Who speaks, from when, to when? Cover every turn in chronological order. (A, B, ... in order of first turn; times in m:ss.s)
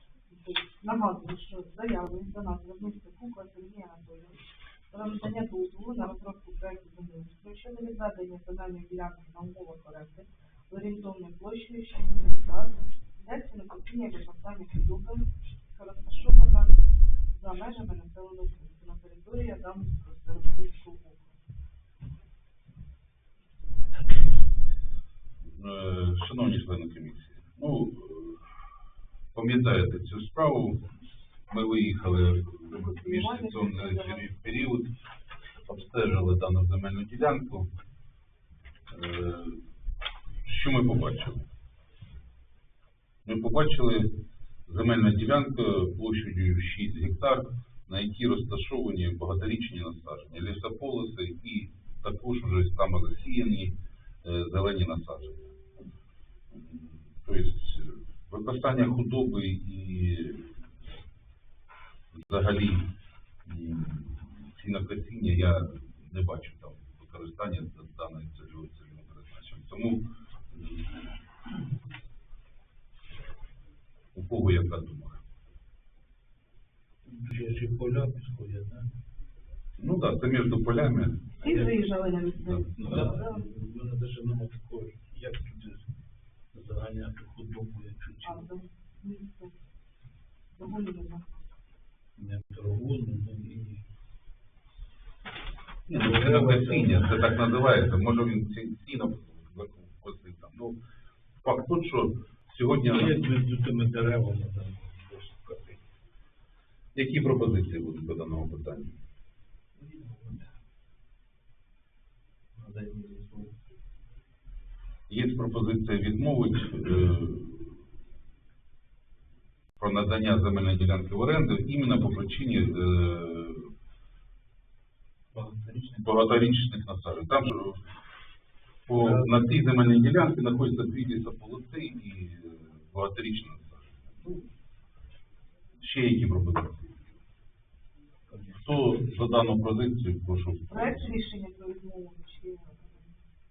0:00.3-0:16.7 A
0:17.3-0:21.4 A
0:25.5-0:28.4 B
0:29.3-0:30.8 B
0:31.5-0:34.9 B
0:32.7-0:34.2 A
0:35.6-0:37.7 B
0:38.9-0:39.6 B
0:40.4-0:41.4 B
0:43.2-0:55.6 B
0:56.5-1:00.6 B
1:02.1-1:02.9 B
1:03.4-1:11.0 B
1:14.1-1:15.2 B
1:17.0-1:18.9 C
1:19.8-1:21.7 B
1:21.4-1:23.4 A
1:22.5-1:23.1 B
1:22.8-1:25.9 C
1:26.5-1:28.4 C
1:28.2-1:29.5 A
1:30.6-1:31.4 A
1:32.2-1:33.8 C
1:35.9-1:40.8 B
1:35.9-1:37.2 C
1:41.4-1:43.2 B
1:42.8-1:45.8 C
1:47.0-1:48.9 B
1:49.8-1:50.5 C
1:52.6-1:53.5 C
1:55.1-1:57.8 B
1:59.8-2:03.7 B
2:05.3-2:06.1 C
2:06.0-2:07.8 B
2:08.9-2:14.4 B
2:08.9-2:09.3 C
2:15.8-2:17.1 B
2:18.3-2:19.0 C
2:18.6-2:21.1 B
2:20.7-2:23.1 A